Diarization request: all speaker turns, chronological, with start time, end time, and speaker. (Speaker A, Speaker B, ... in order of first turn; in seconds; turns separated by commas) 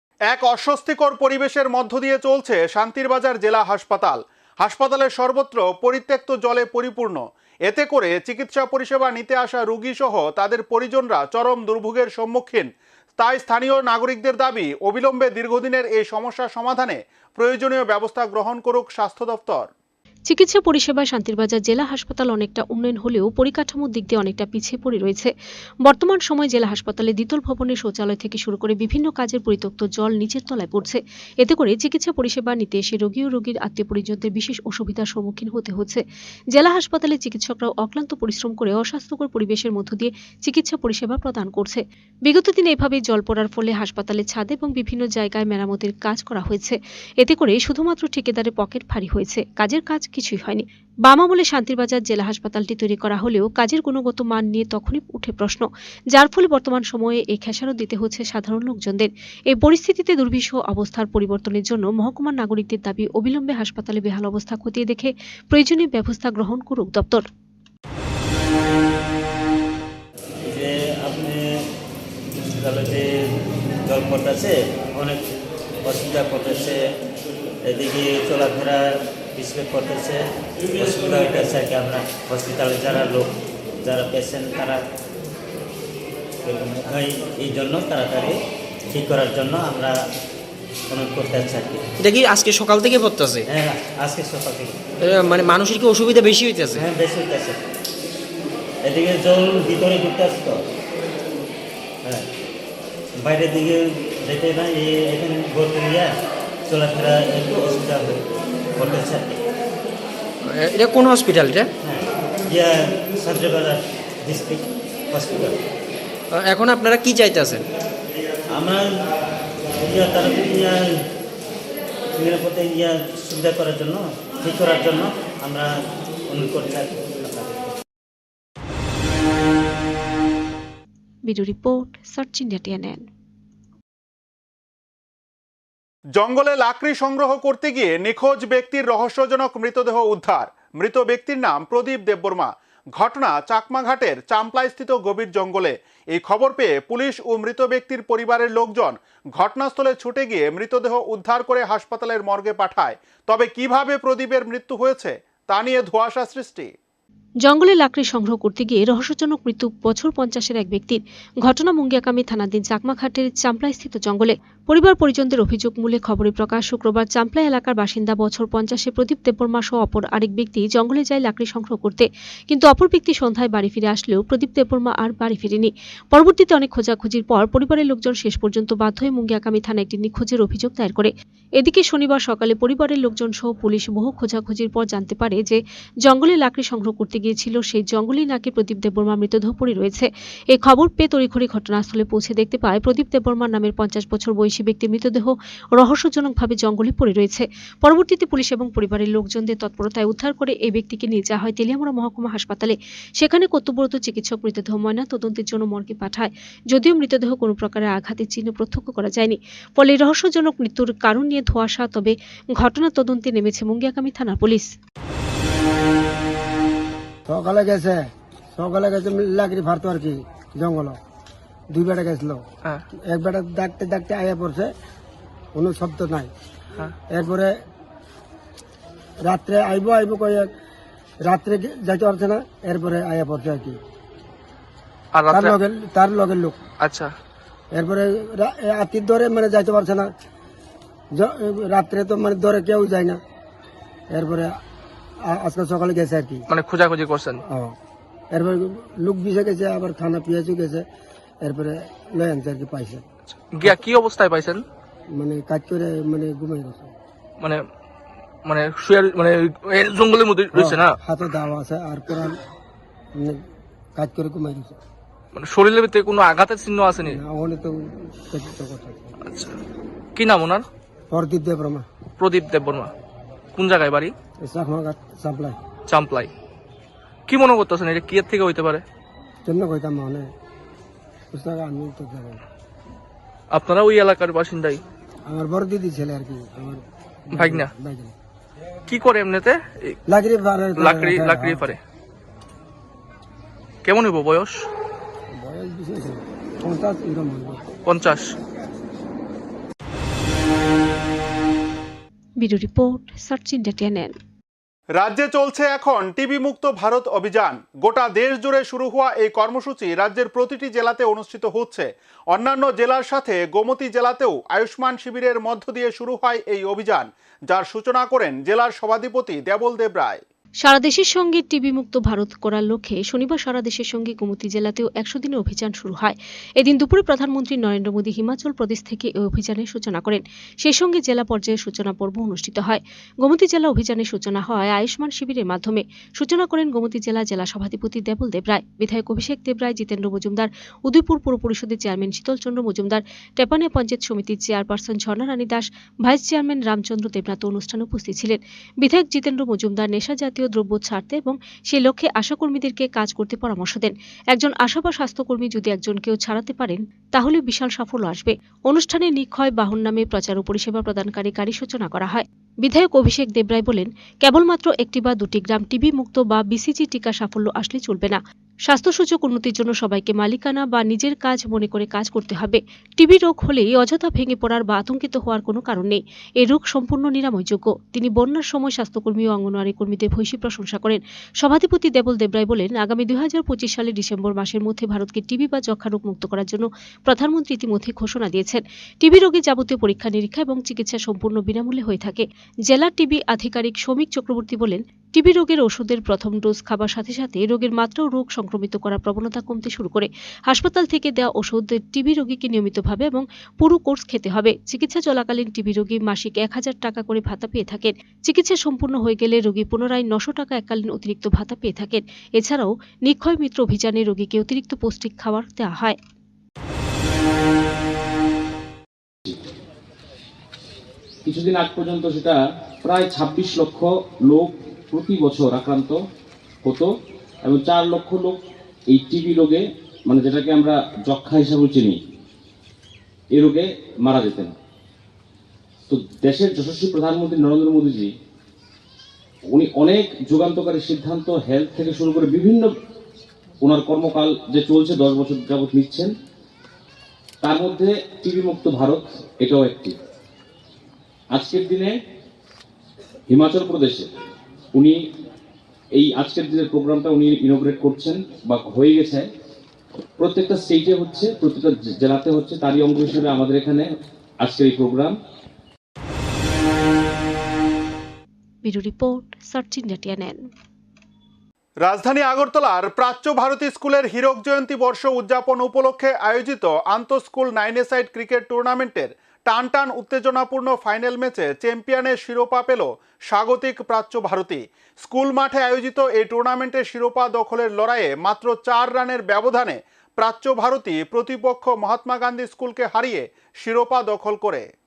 Speaker A: 0.3-19.7, Speaker B: 20.3-25.3, Speaker B: 25.9-36.0, Speaker B: 36.5-67.3, Speaker C: 70.5-71.6, Speaker C: 72.5-73.3, Speaker C: 73.8-75.2, Speaker C: 75.8-76.8, Speaker C: 77.7-83.3, Speaker C: 83.8-84.8, Speaker C: 86.5-88.3, Speaker C: 88.9-90.0, Speaker C: 90.9-91.8, Speaker D: 92.0-93.4, Speaker C: 93.5-94.8, Speaker D: 95.0-96.8, Speaker C: 96.7-97.6, Speaker C: 98.8-100.6, Speaker C: 103.2-106.1, Speaker C: 106.7-108.2, Speaker C: 108.8-109.4, Speaker D: 110.5-111.7, Speaker C: 111.8-115.5, Speaker D: 116.3-117.6, Speaker C: 118.5-118.9, Speaker C: 119.8-120.9, Speaker C: 122.2-125.7, Speaker C: 126.3-127.6, Speaker B: 131.3-133.1, Speaker A: 136.2-156.7, Speaker B: 157.4-214.7, Speaker E: 217.3-221.0, Speaker E: 221.7-222.4, Speaker E: 223.0-224.7, Speaker E: 225.6-226.3, Speaker E: 227.1-227.6, Speaker E: 229.2-230.5, Speaker E: 231.2-233.8, Speaker F: 235.1-235.6, Speaker E: 235.3-236.6, Speaker F: 236.8-237.1, Speaker E: 237.7-240.1, Speaker E: 241.1-243.2, Speaker E: 244.1-244.6, Speaker E: 245.2-246.4, Speaker F: 246.5-247.4, Speaker E: 247.5-247.8, Speaker E: 248.3-250.9, Speaker E: 251.4-253.0, Speaker F: 253.4-254.7, Speaker E: 255.1-256.9, Speaker F: 257.4-257.6, Speaker F: 258.5-261.0, Speaker E: 260.5-262.4, Speaker E: 263.1-263.4, Speaker E: 263.9-264.8, Speaker F: 265.4-267.2, Speaker E: 267.1-269.0, Speaker F: 269.2-269.6, Speaker F: 270.2-270.7, Speaker E: 271.1-271.9, Speaker F: 272.2-272.9, Speaker F: 273.6-274.1, Speaker E: 274.4-275.6, Speaker F: 275.9-276.3, Speaker F: 277.3-278.8, Speaker E: 279.5-280.3, Speaker E: 281.3-282.4, Speaker F: 283.5-284.8, Speaker E: 285.3-288.1, Speaker F: 287.4-287.7, Speaker F: 288.9-290.0, Speaker E: 290.1-291.7, Speaker F: 290.8-291.8, Speaker F: 293.9-294.7, Speaker E: 295.3-297.6, Speaker F: 297.9-298.4, Speaker B: 302.4-304.1, Speaker A: 305.0-320.2, Speaker B: 320.6-416.0, Speaker G: 421.2-426.0, Speaker G: 427.4-432.0, Speaker G: 433.3-434.5, Speaker G: 435.9-438.1, Speaker G: 439.5-442.7, Speaker G: 443.6-446.1, Speaker G: 447.4-450.0, Speaker G: 451.3-452.0, Speaker G: 453.3-454.1, Speaker G: 455.9-459.3, Speaker G: 460.2-463.9, Speaker G: 464.4-465.1, Speaker B: 468.6-470.4, Speaker A: 471.8-494.7